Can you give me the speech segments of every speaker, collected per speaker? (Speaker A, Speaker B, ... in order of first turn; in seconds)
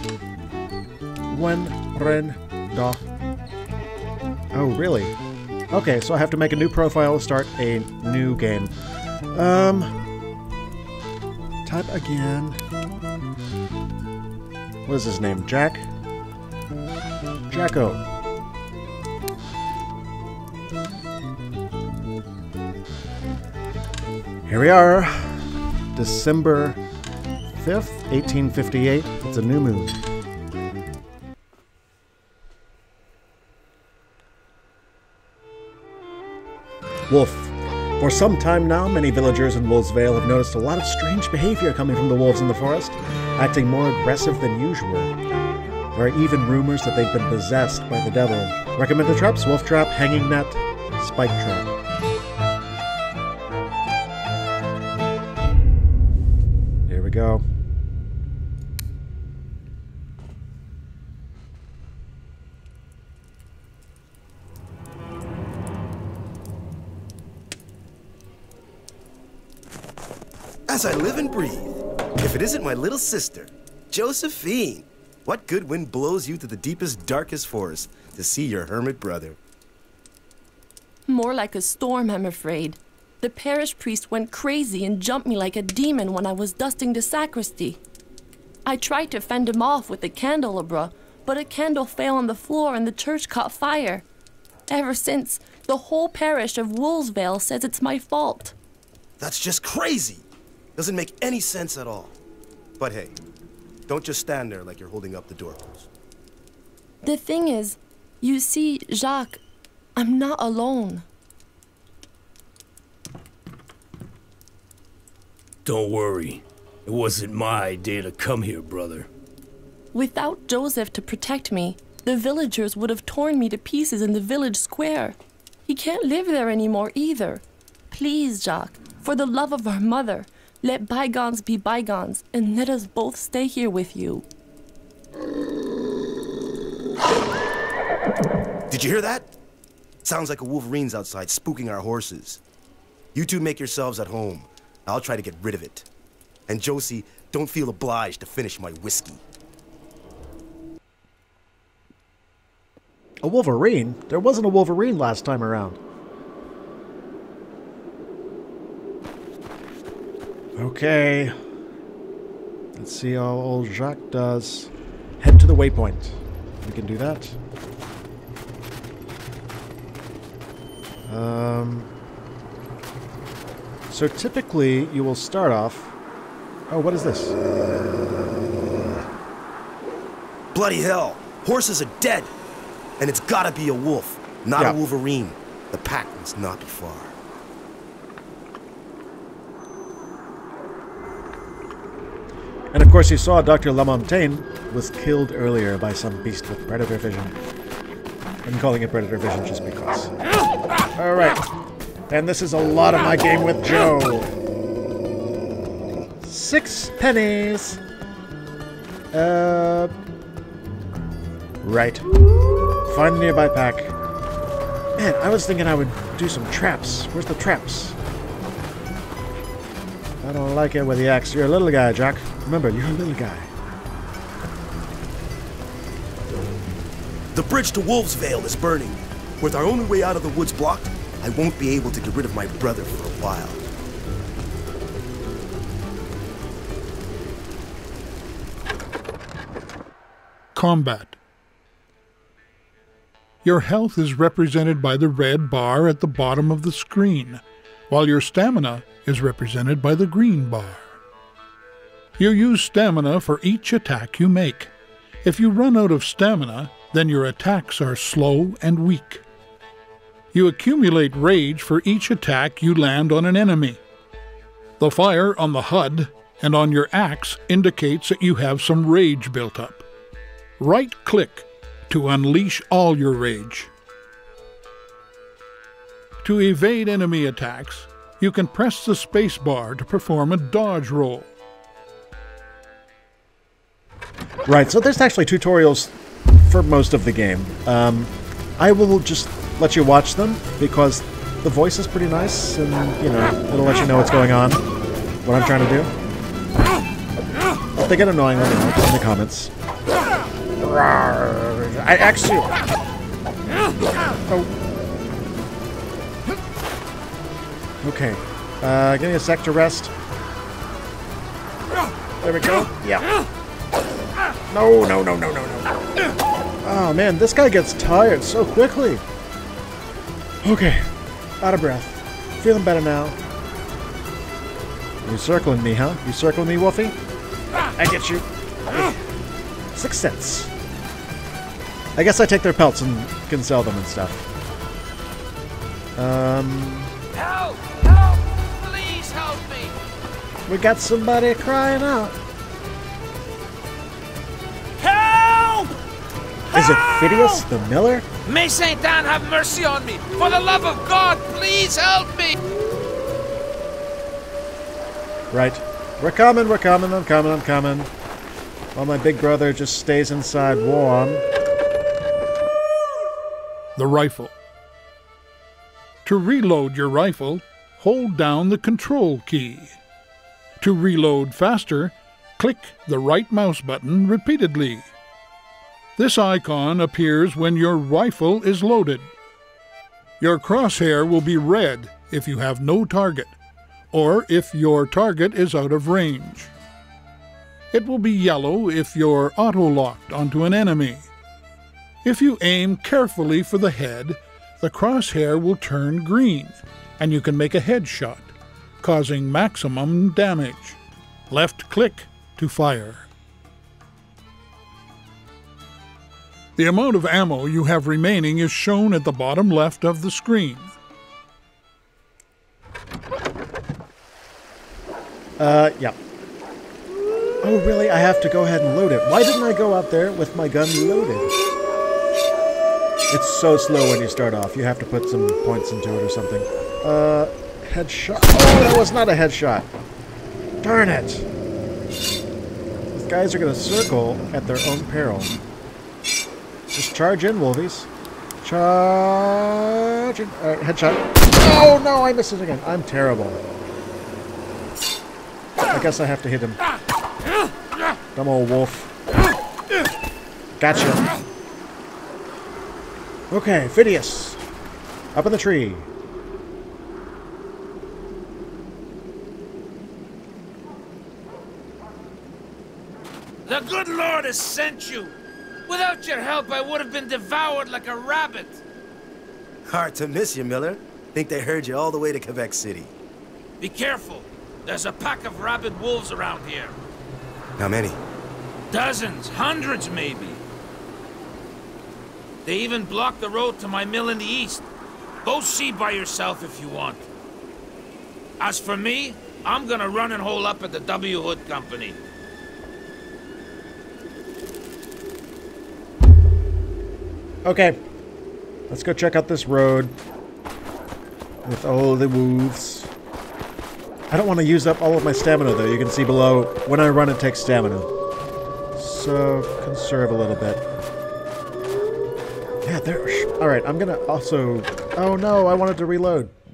Speaker A: 1.3-3.0, 4.5-5.2, 5.7-8.7, 9.3-9.9, 11.7-12.6, 14.9-15.9, 17.5-18.0, 24.5-26.8, 27.6-30.0, 37.1-45.1, 45.9-51.7, 56.9-57.4, 153.2-155.8, 160.6-161.3, 162.8-167.4, 171.1-171.9, 173.9-175.9, 176.7-177.3, 192.7-197.4, 198.4-200.1, 201.0-201.4, 202.1-204.3, 206.2-207.8, 209.1-209.9, 211.6-212.1, 212.9-213.9, 215.0-218.0, 220.2-223.5, 284.5-294.6, 295.2-295.9, 297.8-299.5, 300.6-302.6, 304.3-304.5, 307.8-310.0, 312.2-313.1, 314.5-315.7, 316.6-319.0, 320.4-320.9, 321.4-323.2, 325.0-327.0, 327.8-328.9, 329.8-330.5, 332.0-334.2, 336.0-336.9, 340.5-342.2, 346.5-348.1, 355.3-357.9, 358.7-361.3, 415.4-416.0, 417.4-421.3, 423.1-429.7, 430.6-431.3, 432.9-435.4, 436.7-437.9, 438.4-443.4, 445.7-446.6, 448.1-448.9, 450.6-451.1, 453.3-454.4, 455.1-455.9, 497.4-497.8, 498.7-499.9, 501.4-502.9, 504.1-507.9, 508.8-510.6, 512.6-516.3
Speaker B: 70.7-79.4, 99.2-100.2, 100.8-102.2, 102.8-103.2, 103.9-105.9, 138.7-139.3, 140.0-142.4, 143.2-145.9, 146.5-149.2, 180.5-182.3, 183.0-187.2, 227.3-233.7, 469.7-472.9, 477.6-478.0
Speaker C: 81.1-87.8, 88.7-94.0, 94.7-98.5, 107.0-109.4, 110.0-111.0, 119.9-134.3
Speaker D: 115.7-119.1
Speaker E: 240.5-241.2, 243.4-251.0, 252.2-254.7, 255.2-259.2, 260.3-263.8, 264.8-269.9, 270.6-273.7, 276.2-281.3, 363.8-364.4, 366.0-369.8, 370.6-374.9, 376.0-379.1, 380.2-383.4, 383.9-386.5, 387.7-391.1, 392.0-400.8, 401.3-403.1, 406.6-410.7
Speaker F: 337.1-339.8, 344.8-345.8, 346.5-347.4, 348.2-352.4, 463.5-465.2, 465.7-468.6, 473.6-476.8, 478.7-480.4, 482.4-484.7, 485.2-487.1, 488.4-492.0